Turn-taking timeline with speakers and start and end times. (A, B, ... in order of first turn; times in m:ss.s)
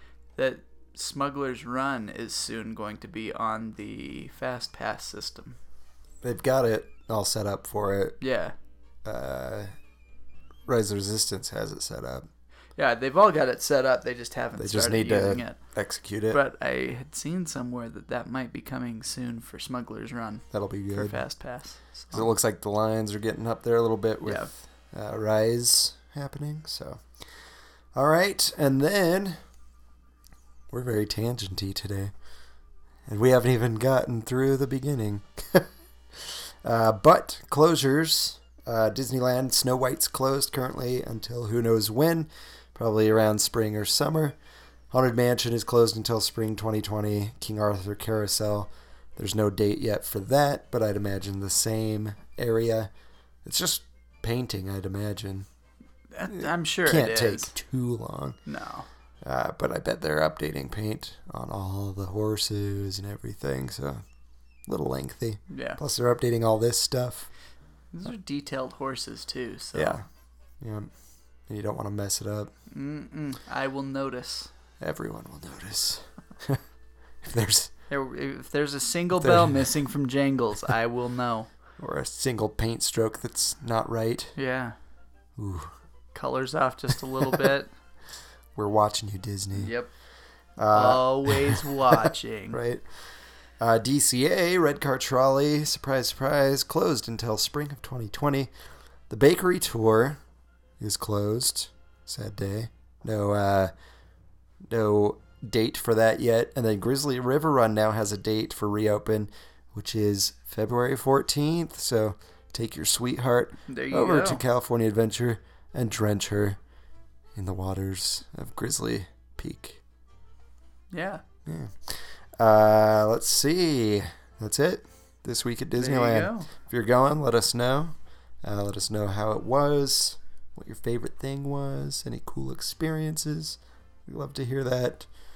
0:00.4-0:05.6 A
0:06.2-0:08.2 B
0:08.2-0:08.5 A
0:09.0-0:09.7 B
0:10.7-0:12.3 B
0:12.8-0:15.6 A
0:14.6-0:16.4 B
0:16.3-0:22.3 A
0:20.5-0:21.2 B
0:22.1-0:27.1 B
0:24.2-0:24.5 A
0:27.9-0:29.4 B
0:30.7-0:32.1 B
0:33.0-0:44.4 B
0:44.9-0:52.9 B
0:53.4-0:55.5 B
0:56.1-0:57.5 A
0:56.3-0:58.4 B
0:58.4-0:58.9 A
0:59.2-1:04.0 B
1:04.6-1:07.3 B
1:05.5-1:05.8 A
1:07.9-1:10.0 A
1:09.7-1:10.0 B
1:10.6-1:10.9 B
1:11.5-1:12.5 B
1:12.7-1:14.5 A
1:14.8-1:16.6 B
1:17.2-1:17.7 B
1:17.9-1:21.5 A
1:19.2-1:19.7 B
1:21.8-1:24.3 B
1:24.4-1:24.7 A
1:25.4-1:25.7 B
1:26.1-1:27.7 A
1:28.5-1:29.7 B
1:29.5-1:29.9 A
1:30.6-1:32.9 B
1:30.7-1:32.6 A
1:33.6-1:38.5 B
1:39.1-1:40.2 B
1:40.8-1:43.7 B
1:44.7-1:56.6 B
1:53.7-1:54.4 A
1:57.3-1:59.8 B
2:00.9-2:01.2 A
2:01.4-2:15.1 B
2:05.8-2:06.5 A